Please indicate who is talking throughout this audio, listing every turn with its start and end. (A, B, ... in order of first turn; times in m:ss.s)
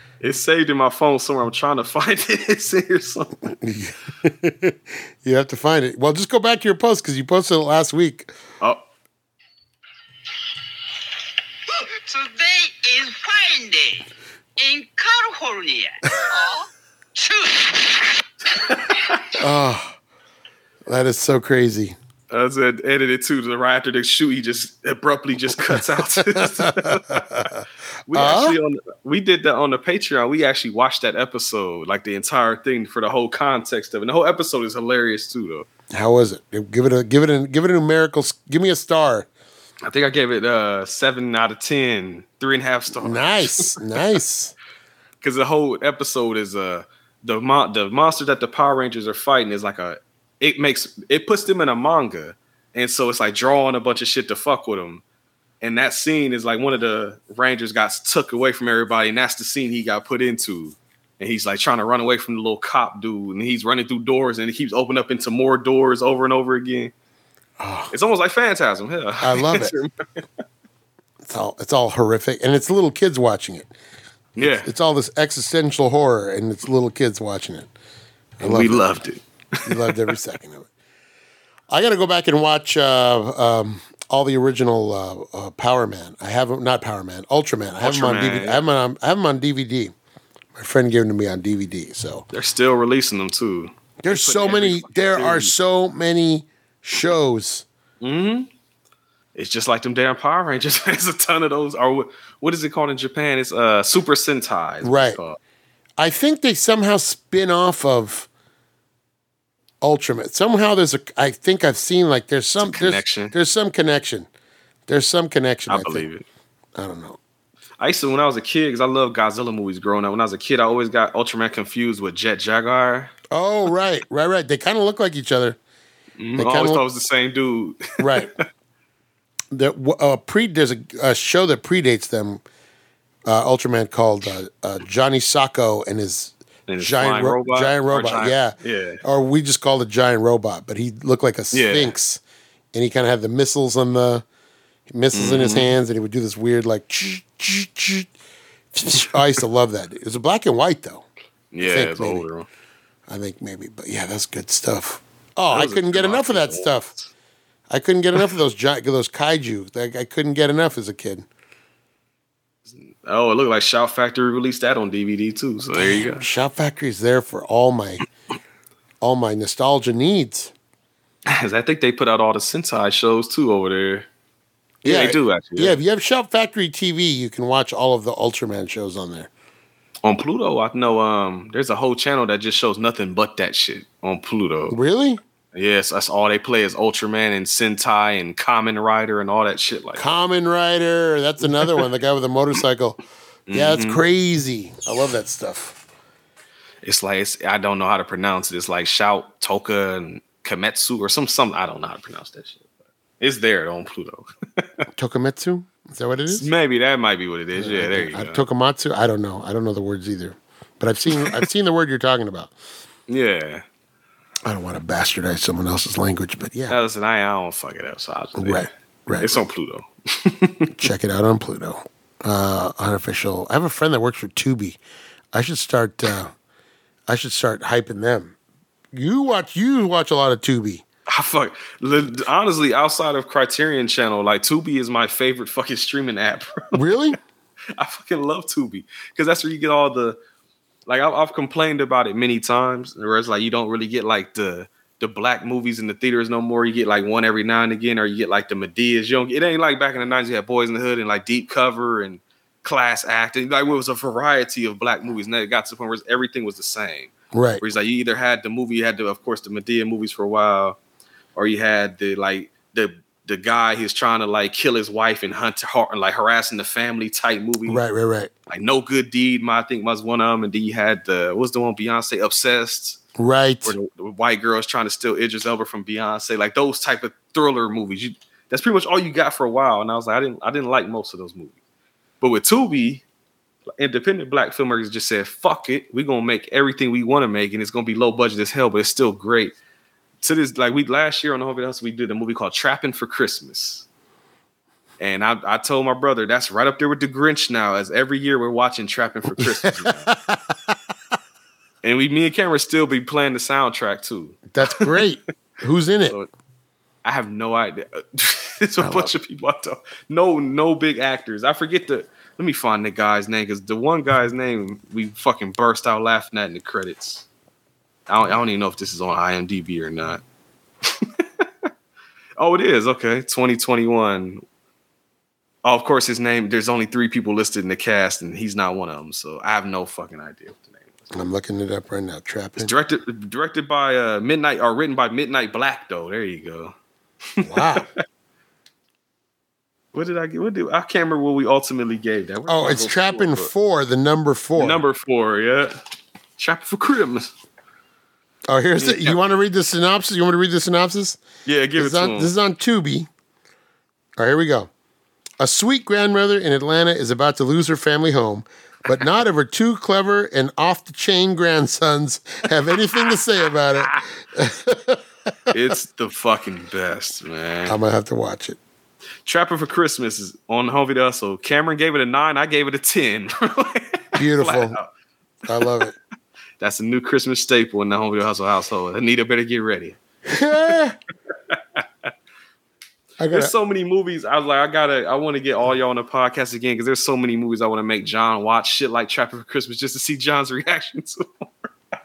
0:00.2-0:03.5 A
0:03.6-0:08.3 B
0:11.7-0:18.2 C
0:18.6-0:19.0 A
0:19.4-0:20.0 B
0:20.9-0:22.0 B
0:22.3-0:27.4 A
0:25.7-0:28.6 B
0:28.1-0:35.7 A
0:35.9-0:39.3 B
0:39.8-0:43.9 A
0:43.0-0:44.5 B
0:45.2-0:55.0 A
0:55.6-1:06.9 A
1:07.6-1:07.9 B
1:07.9-1:09.9 A
1:09.2-1:09.7 B
1:11.2-1:13.7 B
1:14.4-1:14.7 A
1:14.4-1:17.7 B
1:18.4-1:18.9 B
1:18.4-1:20.0 A
1:19.6-1:20.7 B
1:21.7-1:29.9 B
1:27.8-1:28.6 A
1:30.5-1:32.3 B
1:32.3-1:35.5 A
1:34.0-1:37.6 B
1:38.0-1:38.5 A
1:39.3-1:45.4 A
1:44.8-1:45.2 B
1:46.0-1:48.3 B
1:49.8-1:54.3 B
1:52.6-1:53.3 A
1:54.9-1:56.0 B
1:55.7-1:56.2 A
1:56.8-1:57.2 B
1:57.8-2:03.1 A
2:03.3-2:05.6 B
2:06.2-2:08.3 A
2:06.4-2:06.8 B
2:08.0-2:08.3 B
2:09.5-2:12.4 B
2:13.2-2:22.2 B
2:16.7-2:19.0 A
2:21.5-2:21.9 A
2:22.7-2:24.2 B
2:24.9-2:28.1 B
2:25.1-2:25.7 A
2:28.7-2:31.0 B
2:31.5-2:32.5 A
2:31.6-2:32.2 B
2:33.1-2:36.9 B
2:35.5-2:37.1 A
2:37.7-2:41.3 B
2:42.7-2:46.2 A
2:45.7-2:48.0 B
2:49.0-2:50.5 B
2:51.3-2:54.0 A
2:54.8-2:55.8 A
2:54.8-2:59.3 B
3:00.0-3:04.8 A
3:04.7-3:05.2 B
3:05.5-3:10.0 A
3:10.0-3:13.0 B
3:13.5-3:14.0 A
3:13.5-3:15.8 B
3:16.8-3:22.6 A
3:23.2-3:24.7 A
3:24.9-3:26.5 B
3:26.3-3:28.4 A
3:27.6-3:32.5 B
3:31.1-3:31.4 A
3:33.1-3:33.6 A
3:34.4-3:36.8 B
3:36.7-3:38.7 A
3:38.4-3:39.3 B
3:39.2-3:40.8 A
3:40.7-3:44.8 B
3:45.3-3:46.3 B
3:47.1-3:48.4 B
3:48.9-3:50.8 B
3:51.1-3:56.8 A
3:56.7-3:57.2 B
3:57.8-4:00.2 A
4:00.9-4:20.8 A
4:17.3-4:17.6 B
4:21.3-4:27.8 A
4:27.7-4:28.3 B
4:28.5-4:33.0 A
4:33.2-4:33.7 B
4:33.6-4:41.5 A
4:42.2-4:43.0 A
4:43.8-4:49.5 A
4:50.2-4:53.8 A
4:55.0-5:00.1 A
4:59.4-5:00.8 B
5:01.8-5:05.0 A
5:04.5-5:06.2 B
5:07.0-5:17.2 A
5:08.8-5:09.1 B
5:18.1-5:20.2 A
5:20.8-5:21.7 A
5:22.4-5:24.4 A
5:25.6-5:31.1 A
5:31.1-5:32.7 B
5:32.6-5:36.7 A
5:37.4-5:37.9 A
5:37.4-5:37.9 B
5:39.9-5:43.5 A
5:42.5-5:44.8 B
5:44.6-5:45.8 A
5:46.4-5:47.3 A
5:48.5-5:51.2 B
5:48.8-5:49.2 A
5:51.4-5:52.3 A
5:51.8-5:53.1 B
5:54.2-5:54.7 B
5:55.4-6:05.0 B
6:05.5-6:07.8 A
6:07.6-6:08.6 B
6:09.2-6:14.9 A
6:14.2-6:14.8 B
6:15.5-6:15.9 B
6:16.6-6:20.0 A
6:20.2-6:21.0 B
6:21.5-6:22.1 A
6:23.2-6:23.5 B
6:23.3-6:31.7 A